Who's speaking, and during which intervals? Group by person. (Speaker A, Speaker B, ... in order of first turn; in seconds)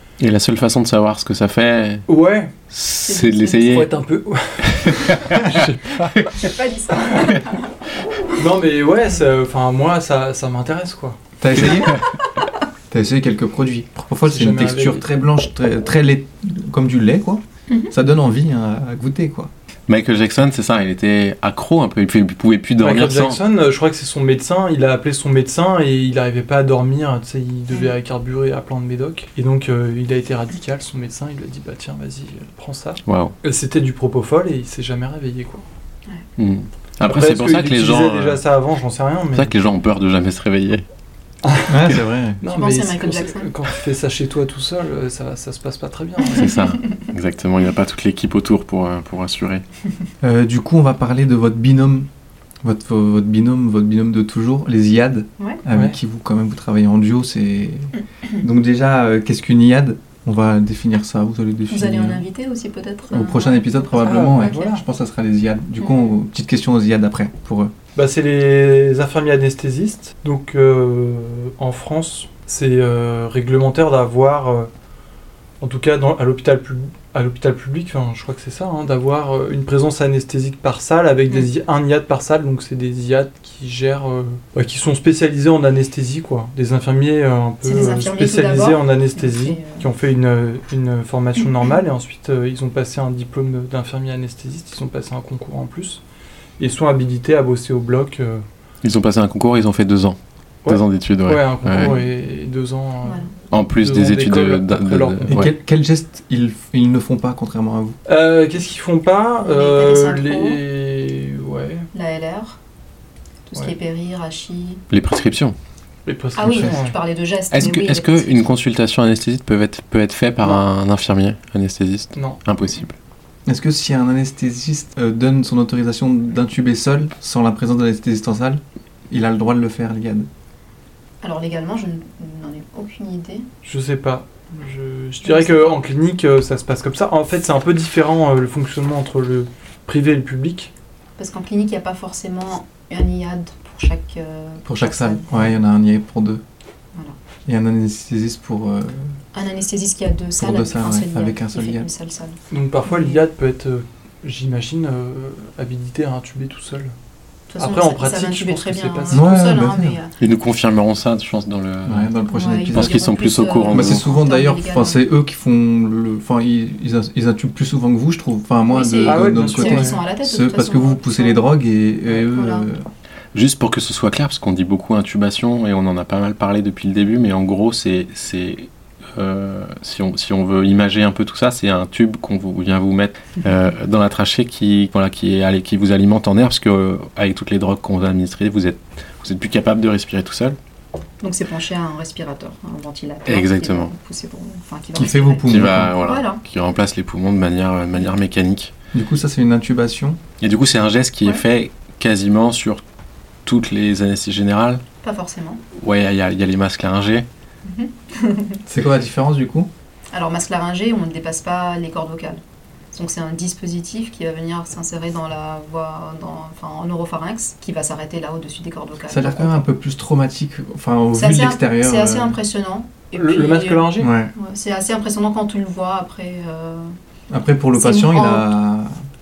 Speaker A: 0.2-2.0, 2.7-3.9, 4.7-6.5, 11.7-12.0, 19.9-23.4, 33.1-33.3, 36.4-38.4, 39.3-40.8, 46.4-49.6, 98.8-102.0, 103.5-105.5, 114.9-115.5, 117.5-122.9, 160.2-162.1, 162.7-164.0, 173.3-190.6, 193.3-193.9, 195.5-198.7, 200.4-202.8, 203.4-204.8, 205.7-207.2
Speaker B: 2.1-2.5, 3.5-6.1, 8.3-11.2, 14.2-15.0, 22.8-35.6, 37.0-39.5, 41.4-46.6, 64.0-64.8, 67.9-74.7, 75.6-96.0, 96.6-98.4, 100.6-105.5, 108.0-111.9, 116.0-116.9, 133.6-140.7, 152.5-156.9, 157.6-159.3, 169.0-170.0, 223.1-224.1
Speaker C: 3.0-3.6, 6.3-7.7, 42.5-43.5, 61.7-64.7, 87.6-89.8, 103.0-103.3, 109.4-110.6, 111.9-112.6, 113.5-114.8, 116.3-118.3, 131.2-133.5, 135.2-135.7, 141.2-145.5, 149.3-153.2, 157.5-160.1, 162.3-165.0, 168.7-171.5, 172.1-172.7, 191.2-196.4, 205.0-205.6, 207.6-208.6, 210.1-212.4, 212.9-219.7, 221.1-226.9, 227.8-228.5
Speaker D: 11.4-12.0, 12.9-19.5, 41.7-42.4, 50.2-52.1, 52.6-62.2, 63.1-67.7, 105.3-108.0, 116.4-116.7, 123.5-130.3, 144.7-146.4, 147.4-149.1, 150.4-151.9, 159.1-160.0, 161.8-163.0, 163.7-172.8, 194.9-195.9, 198.9-200.2, 208.7-209.7, 219.1-222.4, 224.0-224.3, 227.3-228.9